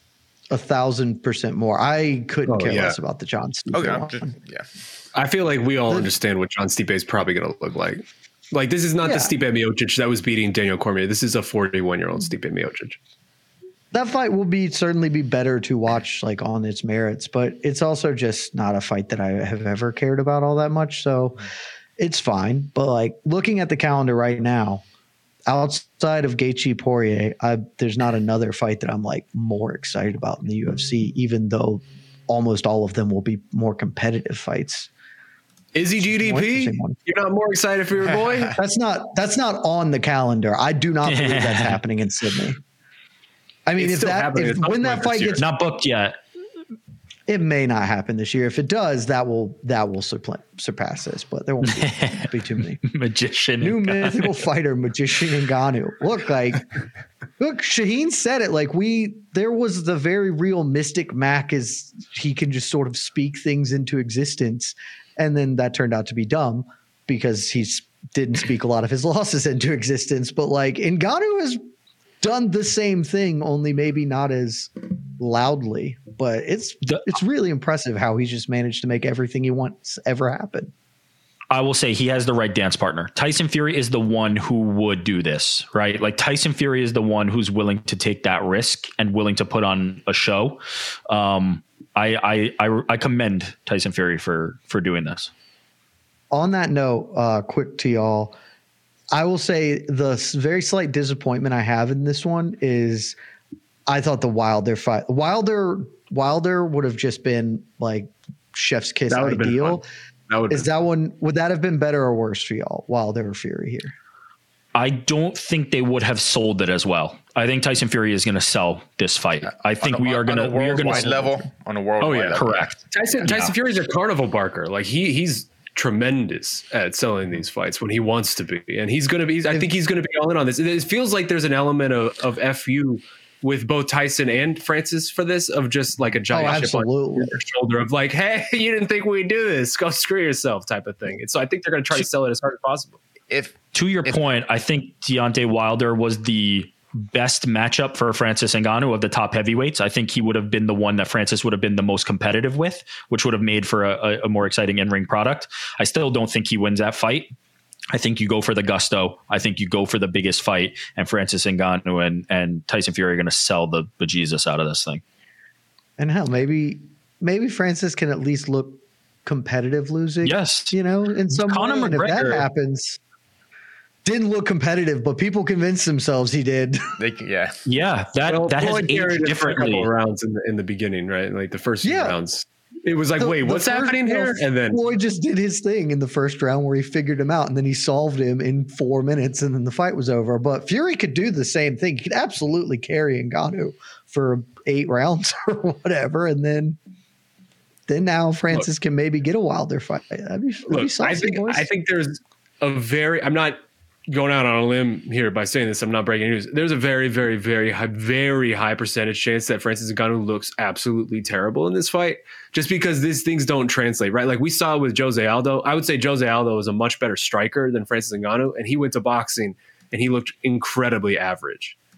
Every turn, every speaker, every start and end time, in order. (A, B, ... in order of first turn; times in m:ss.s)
0:00.5-0:04.3 A
0:02.5-0:03.0 B
0:03.7-0:04.7 C
0:05.2-0:13.0 B
0:09.0-0:09.3 A
0:13.9-0:21.4 A
0:22.0-0:24.8 A
0:25.5-0:34.9 A
0:35.7-0:38.6 B
0:36.0-0:37.0 A
0:38.5-0:42.6 A
0:41.1-0:41.8 D
0:43.7-0:45.4 A
0:43.8-0:45.4 B
0:45.4-0:46.2 D
0:47.3-0:52.8 A
0:51.7-0:52.3 D
0:52.8-0:54.2 D
0:53.6-0:56.7 A
0:57.4-1:11.6 A
1:12.2-1:20.7 A
1:21.5-1:35.3 D
1:36.3-1:38.4 A
1:39.1-1:43.2 A
1:43.9-1:49.8 A
1:49.1-1:50.7 B
1:50.5-1:53.9 A
1:54.8-2:01.4 D
1:59.6-2:03.6 C
2:00.8-2:01.3 A
2:02.0-2:23.0 B
2:02.3-2:02.8 D
2:16.3-2:17.4 A
2:23.3-2:24.2 C
2:23.7-2:37.3 D
2:37.9-2:45.0 D
2:46.0-2:53.0 A
2:50.2-2:50.7 D
2:51.3-2:52.4 D
2:54.0-2:56.9 A
2:57.0-2:57.6 C
2:57.6-2:59.9 D
2:58.3-3:04.8 B
3:01.8-3:02.2 A
3:03.2-3:16.8 A
3:17.9-3:21.7 A
3:20.7-3:41.8 B